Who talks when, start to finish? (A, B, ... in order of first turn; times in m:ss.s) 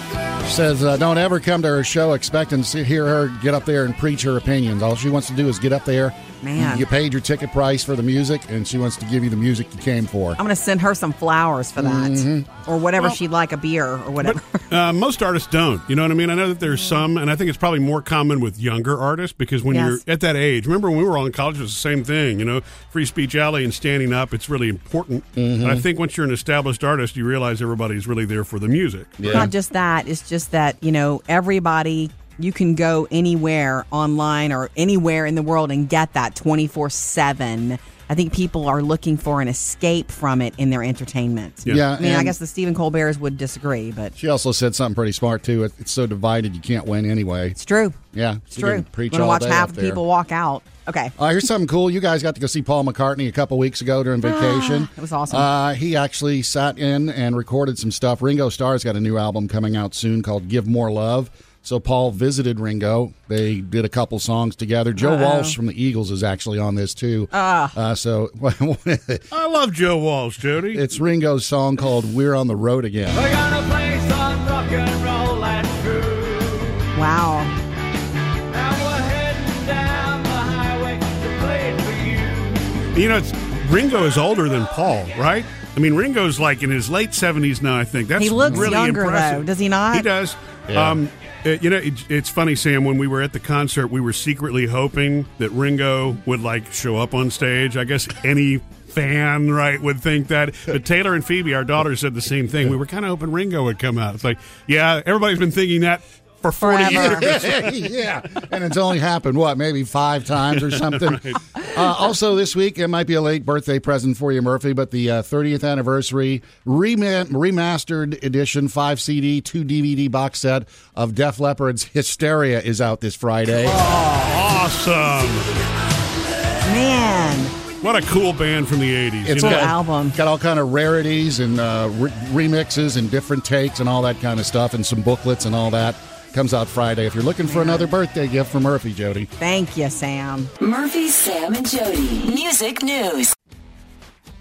0:00.4-0:10.4 A
0:06.4-0:06.9 B
0:10.4-0:14.6 B
0:11.8-0:12.5 A
0:14.2-0:29.5 C
0:19.7-0:20.0 B
0:25.4-0:25.8 A
0:29.2-0:29.5 A
0:29.3-0:44.1 B
0:41.7-0:42.4 A
0:44.2-0:47.6 A
0:47.6-0:48.0 B
0:48.1-0:50.0 A
0:48.5-0:51.1 B
0:51.2-1:09.3 A
0:54.2-0:55.5 B
1:05.0-1:05.6 B
1:07.3-1:07.8 B
1:09.3-1:10.9 C
1:10.7-1:13.2 A
1:13.1-1:16.9 D
1:16.9-1:17.6 B
1:18.5-1:22.8 D
1:22.9-1:47.5 C
1:28.2-1:30.1 B
1:28.4-1:28.8 A
1:30.7-1:31.0 A
1:46.6-1:47.3 B
1:46.9-2:03.8 A
1:50.9-1:51.4 C
2:03.7-2:04.4 B
2:04.0-2:05.6 C
2:06.6-2:07.6 B
2:07.8-2:09.7 C
2:09.2-2:19.3 A
2:09.4-2:10.2 B
2:17.4-2:17.9 B
2:19.4-2:20.5 B
2:20.6-2:23.3 E